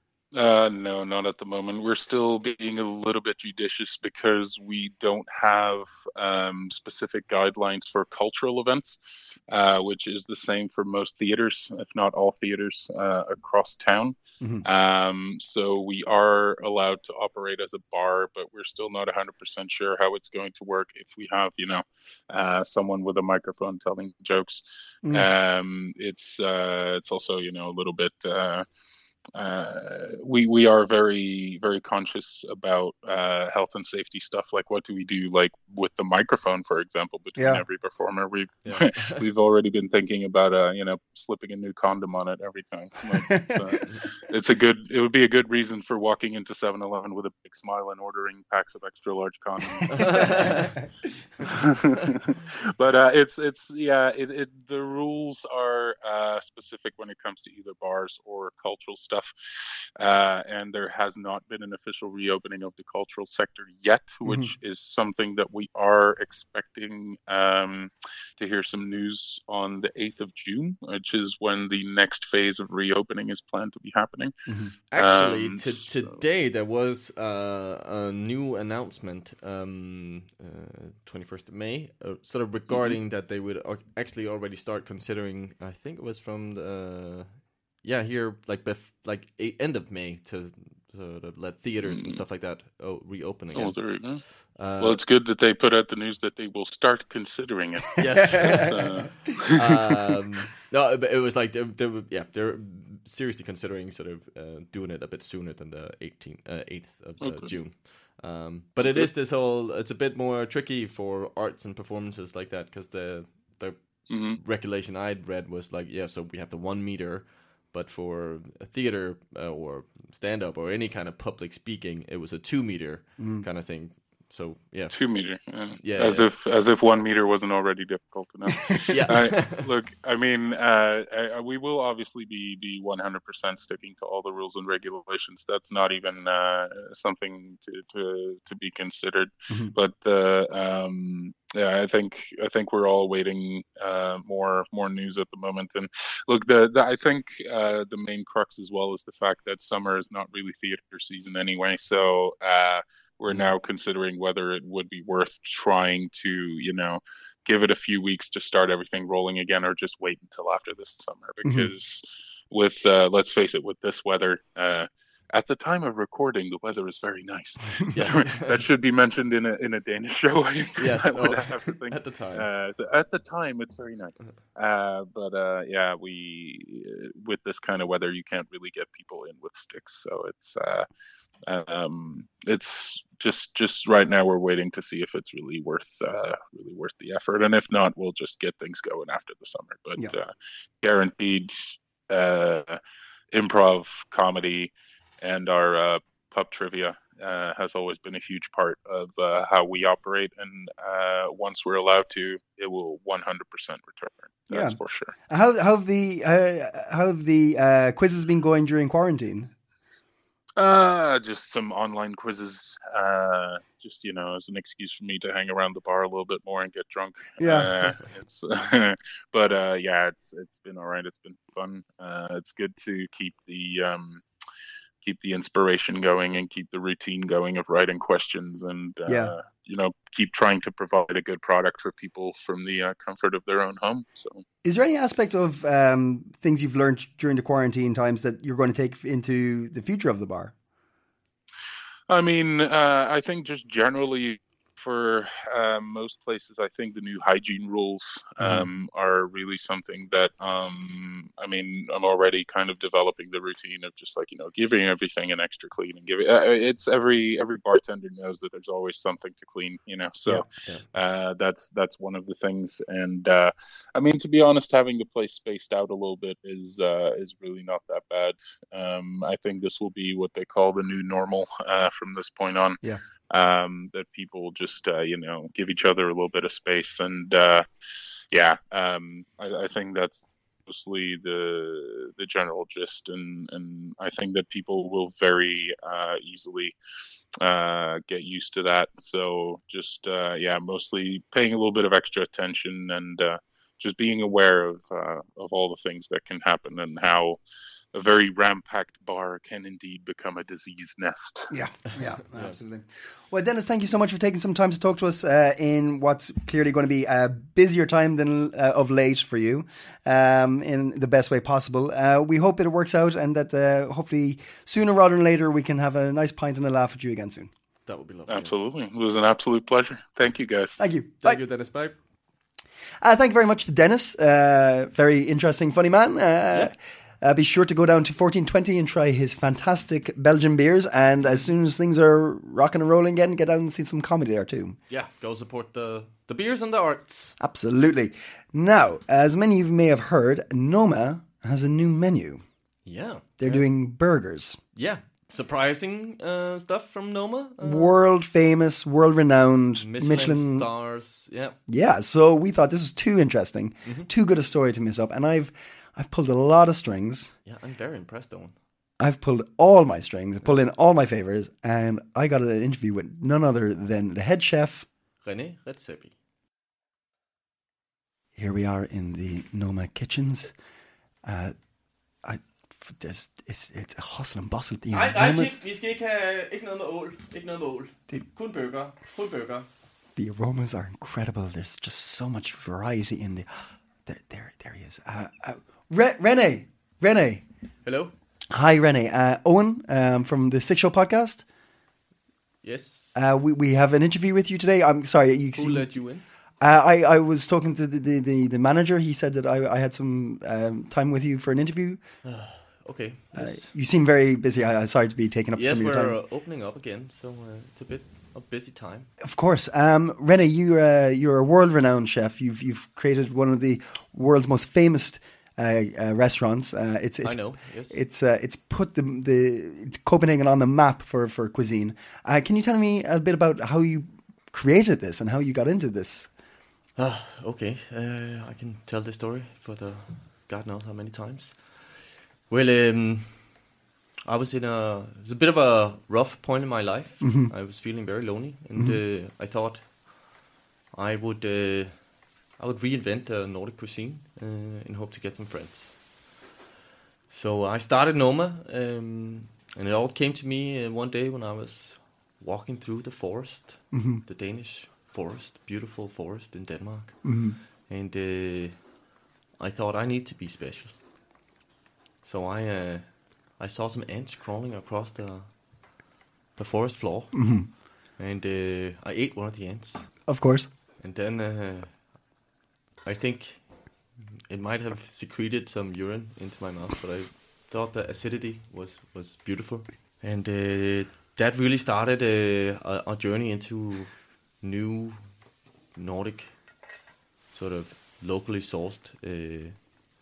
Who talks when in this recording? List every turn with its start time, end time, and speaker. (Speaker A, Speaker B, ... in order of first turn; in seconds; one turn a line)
Speaker A: 0.3-9.0
Speaker A: 9.5-28.7
Speaker A: 29.4-50.7
Speaker B: 37.4-37.6
Speaker C: 38.6-39.2
Speaker B: 43.1-43.8
Speaker C: 49.9-50.7
Speaker A: 51.4-59.3
Speaker A: 60.0-74.3
Speaker B: 64.2-64.5
Speaker B: 74.5-74.7
Speaker C: 74.9-93.8
Speaker A: 75.0-76.2
Speaker A: 82.7-83.0
Speaker A: 91.9-92.2
Speaker A: 93.5-94.2
Speaker C: 94.6-95.0
Speaker A: 94.8-99.8
Speaker C: 98.0-113.8
Speaker B: 98.2-98.9
Speaker A: 107.2-107.5
Speaker A: 108.8-109.1
Speaker A: 114.1-114.4
Speaker C: 114.3-125.0
Speaker B: 123.2-123.5
Speaker A: 124.9-180.9
Speaker C: 125.8-126.3
Speaker C: 128.9-129.7
Speaker B: 161.4-161.7
Speaker C: 167.9-168.6
Speaker C: 170.8-172.5
Speaker A: 181.5-190.3
Speaker A: 190.8-192.8
Speaker A: 193.3-205.1
Speaker B: 204.5-204.8
Speaker B: 205.3-209.5
Speaker A: 210.6-224.2
Speaker B: 217.4-217.8
Speaker A: 225.0-234.4
Speaker B: 229.1-229.3
Speaker B: 234.6-240.5
Speaker A: 242.1-277.7
Speaker B: 248.4-248.7
Speaker A: 278.3-286.8
Speaker A: 287.4-297.4
Speaker A: 297.9-301.5
Speaker B: 301.5-317.5
Speaker C: 317.9-318.5
Speaker A: 318.3-320.8
Speaker B: 320.8-321.4
Speaker C: 321.2-321.9
Speaker B: 323.0-334.8
Speaker C: 334.9-337.4
Speaker B: 337.4-342.4
Speaker C: 342.9-343.7
Speaker B: 343.4-344.6
Speaker C: 344.8-348.0
Speaker B: 347.6-350.7
Speaker C: 349.8-351.6
Speaker B: 351.7-357.3
Speaker C: 353.9-354.1
Speaker C: 357.5-358.5
Speaker B: 359.0-364.9
Speaker C: 365.2-366.1
Speaker B: 368.4-370.5
Speaker B: 371.2-371.6
Speaker B: 372.2-375.6
Speaker C: 374.9-379.7
Speaker B: 380.2-383.5
Speaker B: 384.1-387.4
Speaker C: 387.8-388.1
Speaker B: 388.5-391.4
Speaker C: 392.6-393.2
Speaker B: 393.1-395.9
Speaker C: 395.6-396.2
Speaker B: 396.6-402.0
Speaker C: 402.2-403.7
Speaker B: 403.4-406.2
Speaker C: 405.6-409.1
Speaker B: 409.2-426.3
Speaker C: 417.2-418.0
Speaker C: 427.0-432.0
Speaker C: 432.5-433.5
Speaker C: 434.2-440.3
Speaker B: 437.2-437.5
Speaker C: 440.9-442.0
Speaker C: 442.6-446.0
Speaker C: 447.3-457.3
Speaker B: 453.9-454.2
Speaker B: 457.2-457.6
Speaker C: 457.9-458.8
Speaker C: 459.6-460.9
Speaker C: 462.2-465.5
Speaker C: 466.6-467.6
Speaker B: 467.3-467.7
Speaker C: 468.2-470.1
Speaker B: 470.3-470.7
Speaker C: 471.0-471.9
Speaker C: 473.1-473.6
Speaker C: 474.5-485.2
Speaker C: 485.9-486.5
Speaker C: 487.5-489.8